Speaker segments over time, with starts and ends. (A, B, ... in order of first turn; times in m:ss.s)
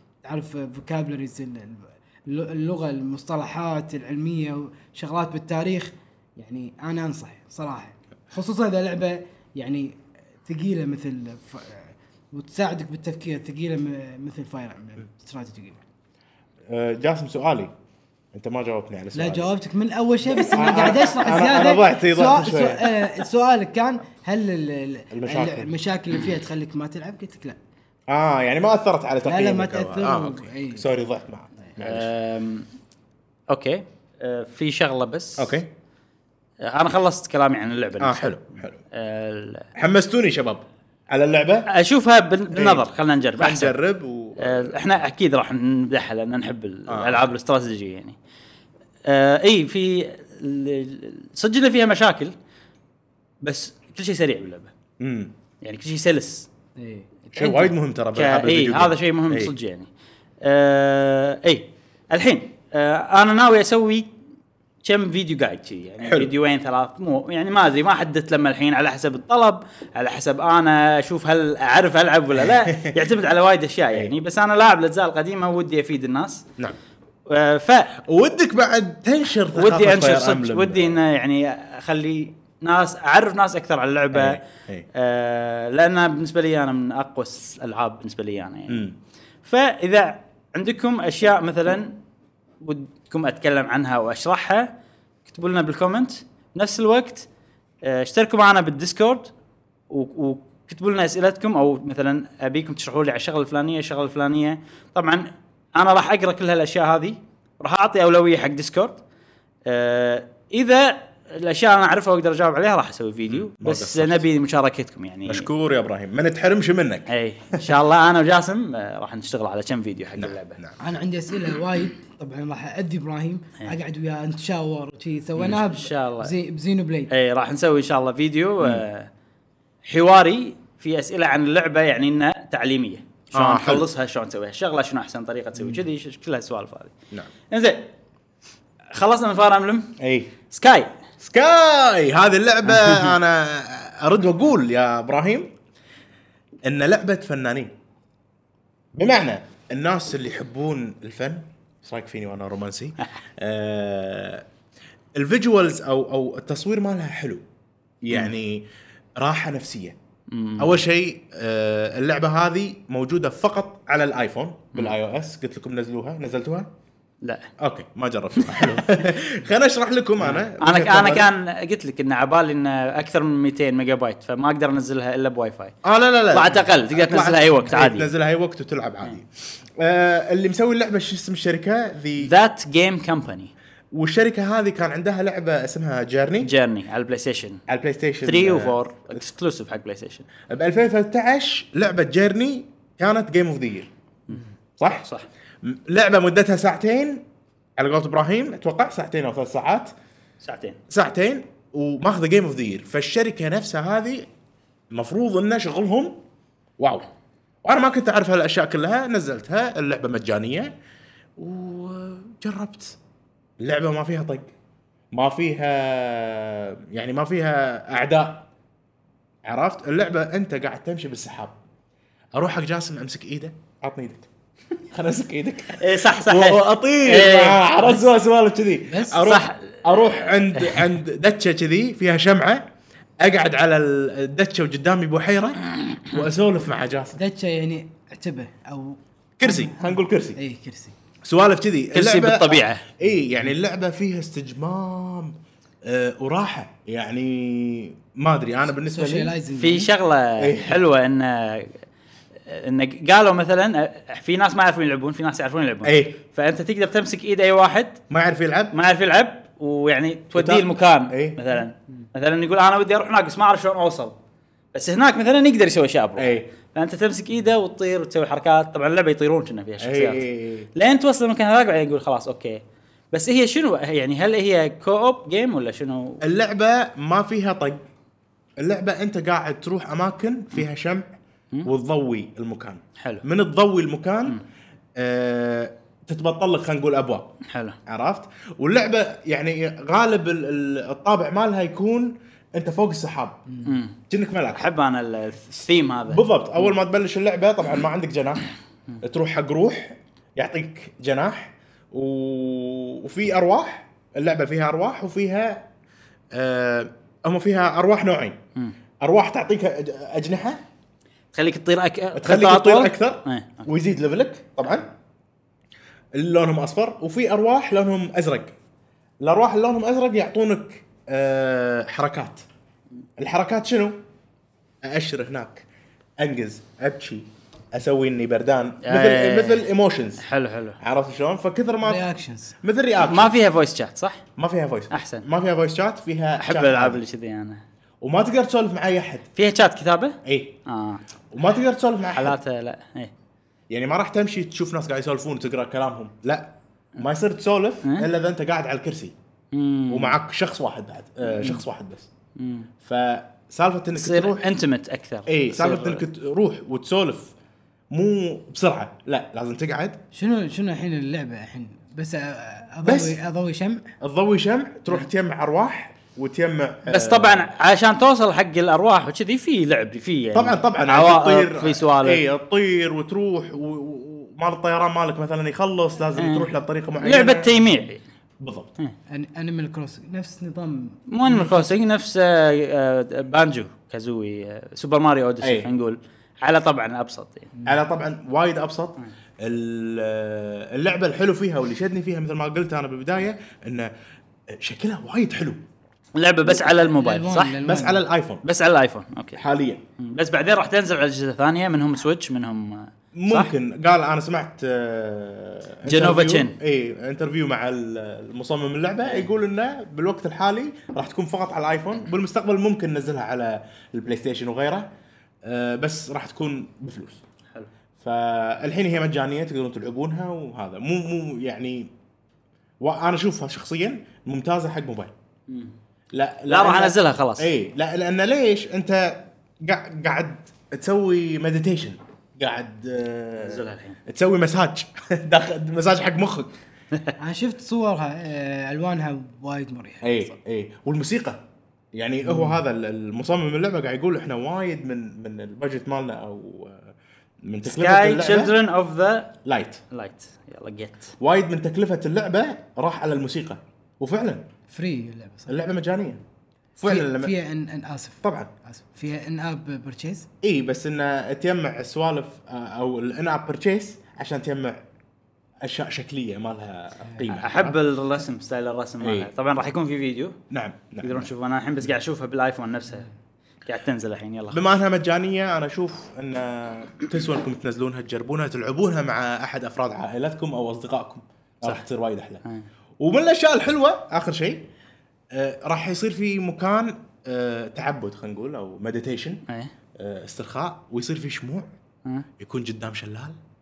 0:00.2-0:15.8 A
0:16.7-0:17.7 B
0:18.3-0:19.5 B
0:19.1-0:27.6 A
0:20.3-0:23.1 B
0:25.1-0:25.7 B
0:28.1-0:32.1 B
0:29.2-0:30.9 A
0:31.8-0:32.7 C
0:33.5-0:35.5 C
0:35.4-0:35.7 B
0:36.6-0:38.4 C
0:38.0-0:38.8 B
0:38.9-0:39.7 C
0:39.8-0:41.7 B
0:41.7-0:43.8 C
0:42.5-0:42.9 B
0:43.4-0:44.8 B
0:44.4-0:48.2 C
0:46.9-0:47.3 B
0:49.0-0:52.3 C
0:53.4-0:54.7 C
0:55.0-0:55.3 B
0:55.6-0:56.5 C
0:56.8-0:57.1 A
0:57.3-0:59.9 C
0:57.3-0:59.5 B
1:00.4-1:04.1 C
1:04.8-1:16.4 C
1:06.0-1:06.3 B
1:12.4-1:13.0 B
1:17.3-1:18.0 C
1:18.0-1:21.0 B
1:19.6-1:24.4 C
1:24.1-1:24.9 B
1:24.9-1:28.9 C
1:28.7-1:29.0 B
1:29.4-1:32.0 C
1:32.6-1:34.7 C
1:35.3-1:37.3 C
1:37.8-1:39.3 C
1:39.9-1:49.0 C
1:49.6-1:55.5 C
1:53.3-1:54.3 B
1:55.3-1:57.7 B
1:57.1-2:00.6 C
2:00.2-2:00.8 B
2:00.8-2:07.1 A
2:05.4-2:06.3 C
2:07.1-2:09.1 C
2:09.9-2:16.9 C
2:13.3-2:13.9 B
2:17.5-2:17.9 C
2:18.9-2:19.9 C
2:20.0-2:20.3 B
2:20.5-2:20.9 C
2:21.2-2:25.5 B
2:22.7-2:23.1 C
2:26.6-2:27.7 B
2:29.0-2:34.4 B
2:35.1-2:37.4 B
2:38.0-2:40.0 B
2:40.3-2:40.8 C
2:40.6-2:46.7 B
2:47.2-2:47.5 C
2:47.6-2:51.3 B
2:48.4-2:48.8 C
2:50.2-2:55.7 C
2:55.8-3:02.3 B
2:56.3-2:58.1 C
3:02.2-3:03.5 C
3:03.9-3:06.5 B
3:06.4-3:07.6 C
3:07.7-3:09.2 B
3:08.2-3:10.2 C
3:10.5-3:13.9 B
3:14.3-3:15.3 C
3:14.8-3:15.1 B
3:15.6-3:17.2 B
3:17.8-3:19.9 B
3:20.4-3:20.8 C
3:20.9-3:24.3 B
3:24.9-3:26.2 B
3:26.8-3:27.0 B
3:27.6-3:30.7 B
3:31.4-3:33.0 B
3:33.6-3:34.5 B
3:35.1-3:38.5 B
3:39.4-3:41.6 B
3:42.3-3:44.3 B
3:44.9-3:52.6 B
3:45.8-3:48.0 C
3:48.9-3:49.3 A
3:49.2-3:49.8 C
3:50.6-3:50.9 C
3:53.2-3:57.2 B
3:57.1-4:01.0 A
3:59.4-4:00.4 B
4:01.2-4:09.4 B
4:01.9-4:02.9 C
4:08.8-4:09.9 A
4:09.6-4:11.8 C
4:10.4-4:10.8 B
4:12.4-4:18.0 C
4:15.8-4:16.2 B
4:18.1-4:18.7 B
4:18.7-4:24.1 C
4:20.3-4:21.4 B
4:24.7-4:32.6 C
4:26.2-4:26.5 B
4:29.8-4:30.7 B
4:33.1-4:36.2 C
4:36.2-4:37.8 B
4:38.6-4:41.1 B
4:41.6-4:44.4 B
4:45.0-4:47.3 B
4:47.4-4:47.8 C
4:47.9-4:53.4 B
4:53.5-4:53.7 A
4:53.6-4:54.0 C
4:54.1-4:54.7 B
4:54.5-4:56.2 C
4:56.1-4:58.5 B
4:59.0-5:05.7 B
5:06.3-5:08.4 B
5:09.0-5:10.6 B
5:11.3-5:13.6 C
5:12.1-5:14.9 B
5:16.1-5:18.5 B
5:19.2-5:22.4 B
5:23.2-5:24.0 B
5:24.8-5:25.6 B
5:26.2-5:30.2 B
5:28.8-5:29.7 C
5:30.2-5:30.8 C
5:30.8-5:32.0 B
5:31.8-5:32.6 A
5:32.6-5:33.3 B
5:33.0-5:34.2 C
5:34.4-5:37.0 B
5:34.9-5:35.3 C
5:36.4-5:37.6 C
5:38.0-5:39.3 B
5:39.4-5:41.0 C
5:40.2-5:40.6 B
5:41.3-5:42.4 B
5:42.1-5:43.1 C
5:43.7-5:49.1 B
5:47.8-5:48.1 C
5:49.5-5:50.1 C
5:49.9-5:52.1 B
5:51.3-5:51.6 C
5:52.4-5:52.7 C
5:52.8-5:54.5 B
5:54.0-5:56.0 C
5:55.3-5:57.3 B
5:57.9-6:00.0 B
6:00.1-6:03.9 A
6:02.8-6:03.2 B
6:04.0-6:07.5 B
6:06.9-6:12.2 C
6:10.3-6:17.6 B
6:16.2-6:16.5 C
6:17.0-6:18.0 C
6:18.4-6:18.7 B
6:19.1-6:21.7 A
6:21.1-6:27.5 C
6:25.4-6:25.7 B
6:27.6-6:33.9 B
6:34.5-6:35.6 B
6:36.2-6:37.6 C
6:36.5-6:38.0 A
6:37.6-6:38.4 B
6:38.4-6:39.4 C
6:39.4-6:39.8 B
6:40.0-6:43.5 C
6:43.1-6:54.9 B
6:45.8-6:46.6 C
6:55.4-6:57.2 B
6:58.0-7:01.9 B
7:02.8-7:05.1 B
7:05.5-7:05.7 C
7:06.1-7:16.5 B
7:06.5-7:07.5 C
7:13.4-7:14.0 C
7:17.2-7:20.2 A
7:20.0-7:21.4 B
7:22.0-7:28.5 B
7:22.3-7:22.6 A
7:27.6-7:29.3 C
7:29.4-7:29.8 B
7:29.9-7:31.1 C
7:31.2-7:34.4 B
7:34.7-7:35.5 A
7:35.5-7:36.2 B
7:36.8-7:37.3 B
7:36.8-7:40.3 A
7:38.2-7:38.5 B
7:40.4-7:44.8 B
7:45.6-7:47.8 B
7:47.3-7:50.4 C
7:49.0-7:49.3 B
7:50.5-7:51.3 B
7:51.0-7:53.1 C
7:53.6-7:54.6 C
7:54.5-8:02.4 B
8:03.0-8:04.7 B
8:05.3-8:09.4 B
8:10.0-8:11.7 B
8:12.4-8:13.4 B